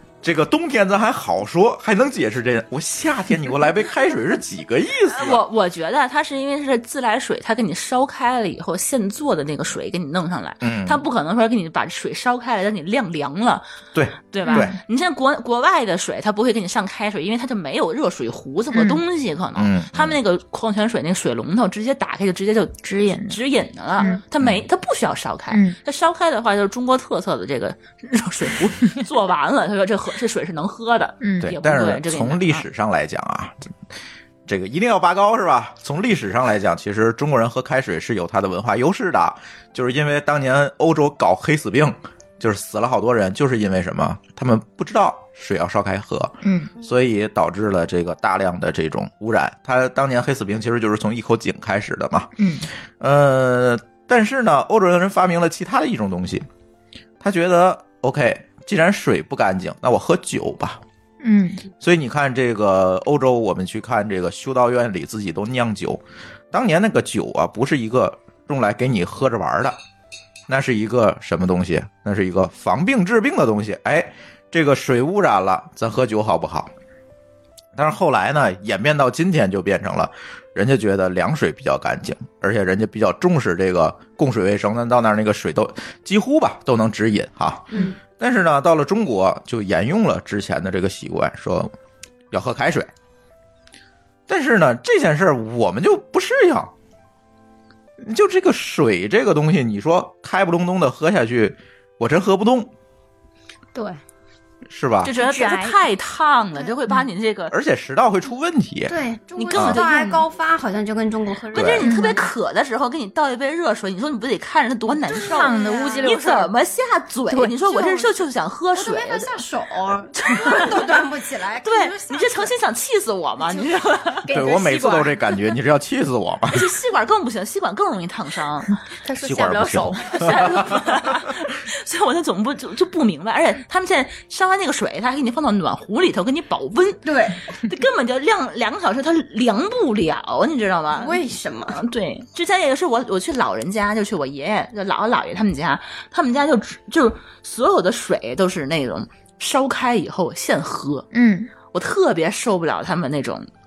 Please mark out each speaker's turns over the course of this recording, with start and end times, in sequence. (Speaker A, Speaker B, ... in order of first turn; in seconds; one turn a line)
Speaker A: 0.2-5.4
Speaker B: 5.1-13.7
Speaker A: 10.6-11.0
Speaker A: 13.9-14.8
Speaker B: 14.3-32.6
Speaker C: 14.4-14.8
Speaker C: 18.7-19.0
Speaker A: 19.6-20.2
Speaker C: 22.8-23.4
Speaker C: 25.5-25.8
Speaker C: 31.2-31.5
Speaker A: 31.4-33.7
Speaker A: 34.5-52.3
Speaker C: 46.4-46.7
Speaker C: 52.4-52.7
Speaker A: 53.0-56.5
Speaker A: 57.2-60.8
Speaker C: 61.2-61.6
Speaker A: 61.8-66.0
Speaker A: 66.5-69.8
Speaker A: 70.5-76.7
Speaker A: 77.8-91.7
Speaker A: 92.3-92.9
Speaker A: 94.3-96.7
Speaker A: 98.0-102.7
Speaker D: 103.7-104.0
Speaker A: 104.7-105.1
Speaker B: 105.0-107.5
Speaker C: 105.1-105.8
Speaker A: 107.5-108.9
Speaker D: 108.9-112.1
Speaker B: 109.4-110.2
Speaker A: 109.5-109.8
Speaker B: 111.5-119.4
Speaker A: 111.5-111.8
Speaker C: 111.8-112.2
Speaker D: 115.1-116.3
Speaker C: 115.1-116.5
Speaker C: 117.3-117.6
Speaker D: 117.7-118.1
Speaker D: 118.7-122.5
Speaker B: 120.2-121.1
Speaker B: 121.6-124.3
Speaker D: 123.4-123.7
Speaker C: 124.3-125.3
Speaker A: 124.3-126.7
Speaker B: 126.5-128.8
Speaker C: 129.0-130.7
Speaker A: 129.2-130.8
Speaker B: 130.1-141.2
Speaker D: 137.1-137.4
Speaker D: 140.9-141.8
Speaker B: 141.7-151.1
Speaker C: 151.1-151.5
Speaker B: 151.7-153.5